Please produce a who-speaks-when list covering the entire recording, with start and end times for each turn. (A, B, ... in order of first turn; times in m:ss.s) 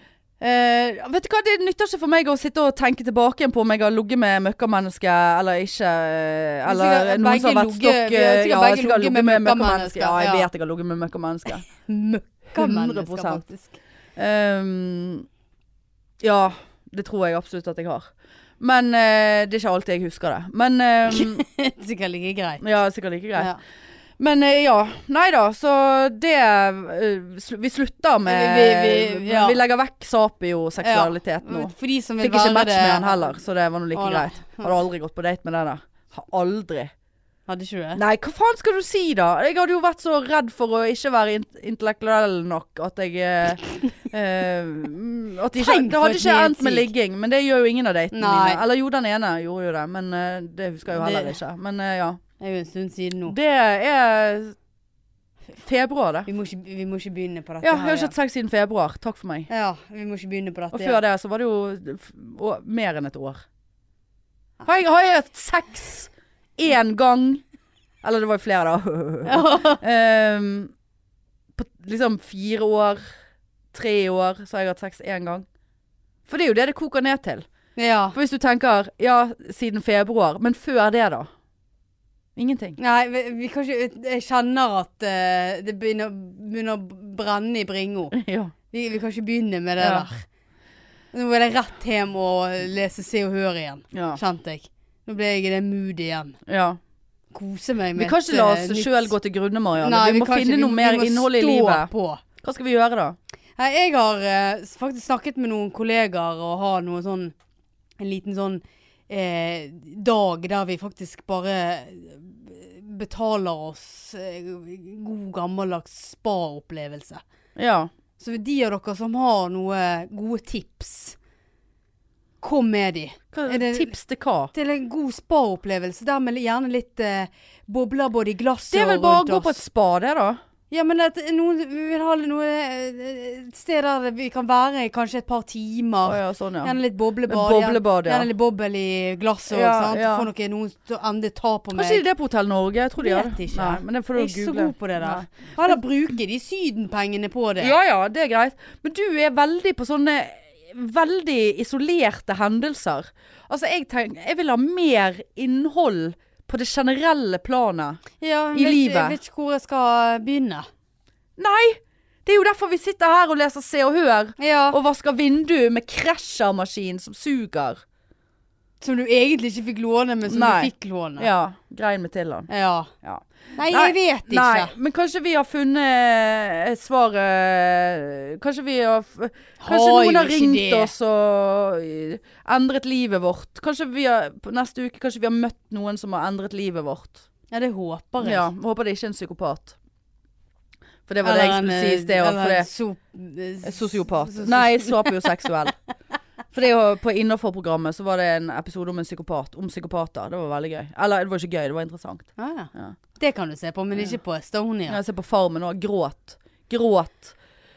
0:00.4-0:11.6 A
0:06.6-0:10.5 B
0:11.8-0:13.8 B
0:12.6-0:13.4 A
0:14.2-0:15.3 A
0:16.2-0:21.4 A
0:21.1-0:22.6 B
0:22.6-0:23.5 A
0:24.2-0:36.9 A
0:28.3-0:29.6 B
0:30.8-0:33.3 B
0:33.9-0:34.7 B
0:37.5-0:38.0 B
0:38.0-0:52.2 A
0:45.6-0:46.9 B
0:48.1-0:48.6 B
0:51.0-0:51.4 B
0:52.4-0:53.4 B
0:53.3-0:54.6 A
0:55.6-0:56.3 A
0:56.3-0:58.1 B
0:57.6-0:59.5 A
0:59.5-1:01.0 B
1:00.7-1:03.4 A
1:04.6-1:07.4 A
1:08.0-1:10.7 A
1:09.2-1:09.8 B
1:11.6-1:13.0 A
1:13.7-1:15.4 A
1:16.3-1:17.4 A
1:17.8-1:18.2 B
1:18.1-1:21.3 A
1:22.4-1:22.8 A
1:22.8-1:28.1 B
1:28.1-1:28.5 A
1:28.7-1:30.3 B
1:29.8-1:30.1 A
1:31.1-1:36.4 B
1:33.9-1:34.2 A
1:36.5-1:36.8 A
1:37.3-1:39.1 B
1:38.0-1:41.9 A
1:39.8-1:42.2 B
1:42.4-1:43.2 A
1:43.6-1:47.3 B
1:48.0-1:57.2 B
1:57.6-1:57.9 A
1:58.2-2:01.2 B
2:02.4-2:03.9 B
2:03.3-2:04.5 A
2:04.5-2:09.6 B
2:08.7-2:10.4 A
2:10.7-2:22.0 B
2:16.0-2:16.7 A
2:17.3-2:18.3 A
2:19.5-2:20.3 A
2:21.7-2:25.8 A
2:23.0-2:27.8 B
2:27.6-2:38.0 A
2:38.2-2:40.7 B
2:38.6-2:39.2 A
2:41.4-2:47.8 A
2:44.4-2:44.8 B
2:48.8-2:51.3 B
2:50.3-2:52.5 A
2:52.5-2:52.9 B
2:53.0-3:07.2 A
2:53.6-2:54.7 B
2:59.6-3:00.9 B
3:07.5-3:08.5 B
3:08.2-3:09.8 A
3:11.1-3:12.7 A
3:11.2-3:15.2 B
3:13.6-3:15.7 A
3:16.5-3:23.0 A
3:22.4-3:25.0 B
3:24.9-3:27.3 A